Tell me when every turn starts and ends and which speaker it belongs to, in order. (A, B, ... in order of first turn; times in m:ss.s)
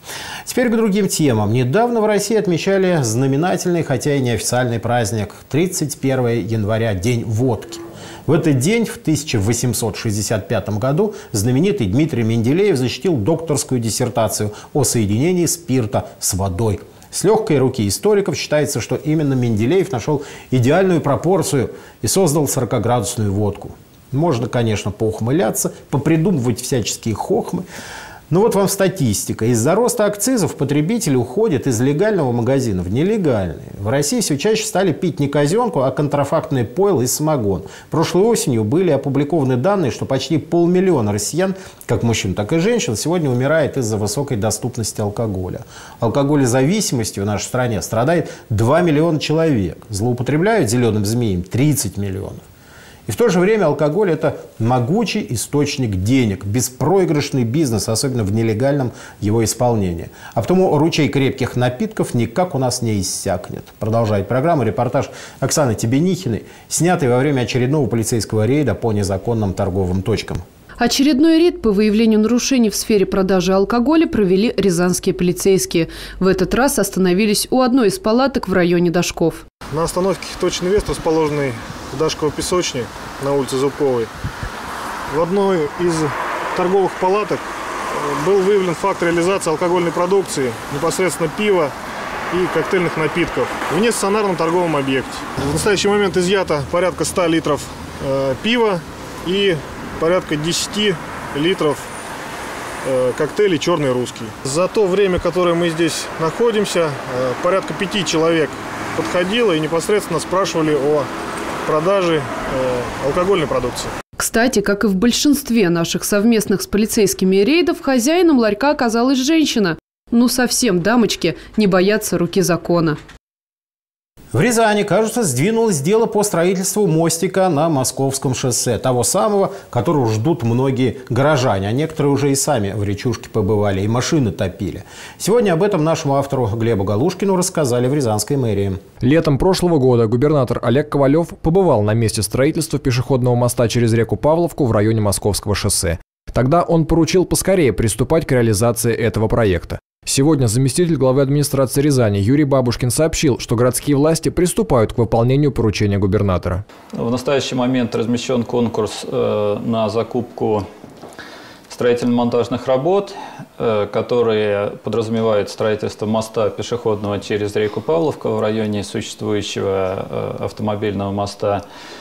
0:00.4-0:27.6 A
0:28.3-0:52.4 A
0:53.1-1:10.4 A
1:10.8-1:19.4 B
1:19.7-1:24.1 C
1:25.1-1:31.7 C
1:32.3-1:41.9 C
1:42.8-1:51.1 C
1:51.6-1:53.9 C
1:54.2-2:03.0 B
2:04.3-2:18.8 A
2:19.0-2:36.6 D
2:37.0-2:40.6 E
2:41.7-2:51.6 E